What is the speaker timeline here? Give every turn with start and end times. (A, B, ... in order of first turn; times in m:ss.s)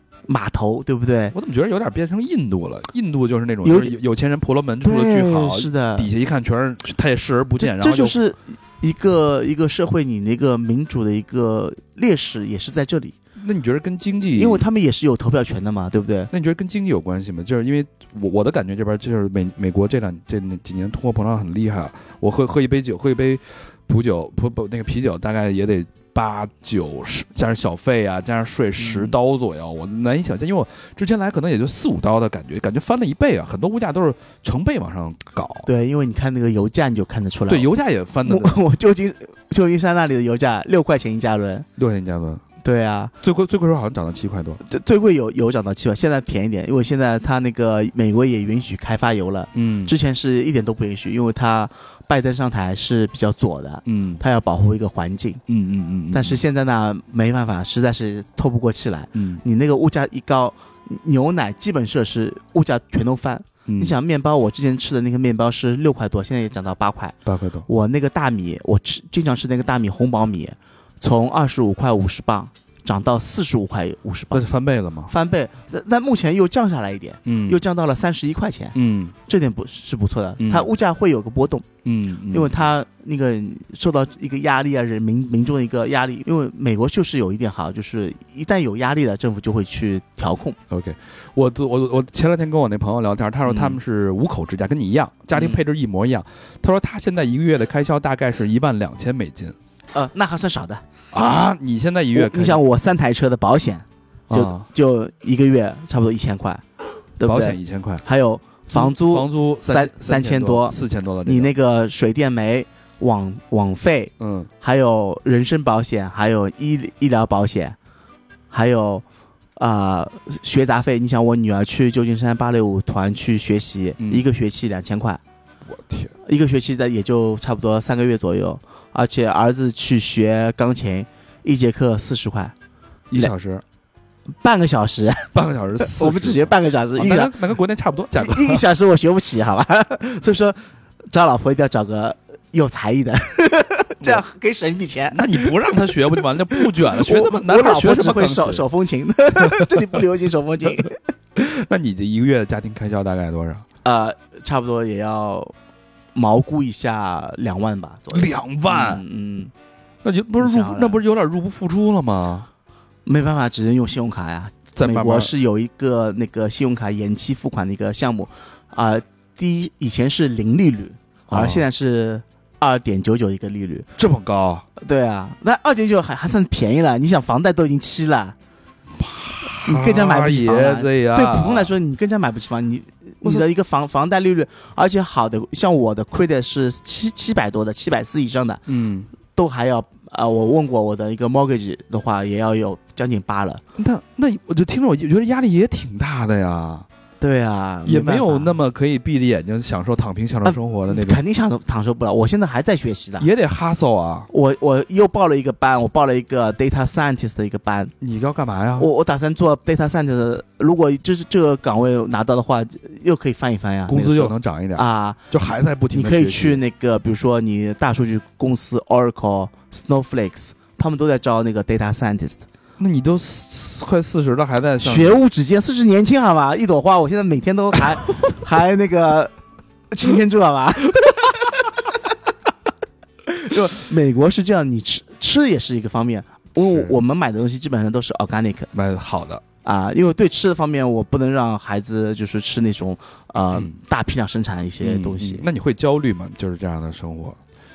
0:00.3-0:01.4 A
0:01.3-0:08.2 B
0:03.6-0:04.0 A
0:04.8-0:06.1 A
0:07.6-0:13.2 A
0:13.4-0:14.6 B
0:14.4-0:16.3 A
0:16.3-0:35.7 B
0:28.8-0:29.2 A
0:35.7-0:37.7 A
0:37.5-0:38.6 B
0:38.2-0:41.7 A
0:41.8-0:42.4 B
0:42.6-0:43.1 A
0:43.2-0:44.6 B
0:44.7-0:55.4 A
0:49.6-0:49.9 B
0:53.9-0:54.2 B
0:55.5-0:56.4 B
0:56.1-1:14.5 A
0:59.2-0:59.4 B
1:03.7-1:04.0 B
1:07.3-1:07.7 B
1:14.3-1:15.1 B
1:15.1-1:18.8 A
1:17.3-1:17.6 B
1:18.7-1:19.2 B
1:19.3-1:21.7 A
1:20.4-1:20.7 B
1:21.8-1:22.6 B
1:22.3-1:30.6 A
1:30.7-1:39.6 B
1:33.5-1:33.8 A
1:35.3-1:35.6 A
1:39.9-1:40.8 A
1:41.1-1:42.6 B
1:42.1-1:46.6 A
1:44.3-1:44.7 B
1:47.2-1:57.8 A
1:47.2-1:48.0 B
1:48.7-1:51.5 B
1:54.2-1:54.5 B
1:58.5-1:59.0 A
1:59.6-2:05.2 A
2:05.7-2:06.1 B
2:06.3-2:12.5 A
2:13.1-2:13.6 B
2:14.4-2:17.3 A
2:15.3-2:18.6 B
2:18.2-2:20.6 A
2:21.1-2:25.6 A
2:25.1-2:28.6 B
2:26.5-2:31.0 A
2:29.4-2:29.8 B
2:31.4-2:33.6 B
2:33.8-2:35.5 A
2:36.2-2:39.5 A
2:38.1-2:39.0 B
2:40.0-2:42.5 B
2:40.4-2:41.0 A
2:43.1-2:53.9 A
2:44.8-2:45.3 B
2:51.3-2:51.6 B
2:54.0-2:54.7 B
2:54.8-2:58.4 A
2:59.0-3:01.7 B
2:59.6-3:08.6 A
3:08.7-3:09.1 B
3:09.4-3:13.6 A
3:13.8-3:16.9 B
3:17.2-3:18.6 A
3:17.8-3:21.2 B
3:20.4-3:23.3 A
3:23.2-3:24.3 B
3:24.3-3:27.9 A
3:28.0-3:28.9 B
3:28.8-3:35.3 A
3:33.9-3:36.6 B
3:35.9-3:42.4 A
3:42.8-3:45.2 B
3:44.8-3:49.3 A
3:49.9-3:51.8 A
3:53.3-3:58.7 A
3:56.6-3:57.0 B
3:58.7-3:59.4 B
3:59.6-4:05.5 A
4:04.8-4:07.4 B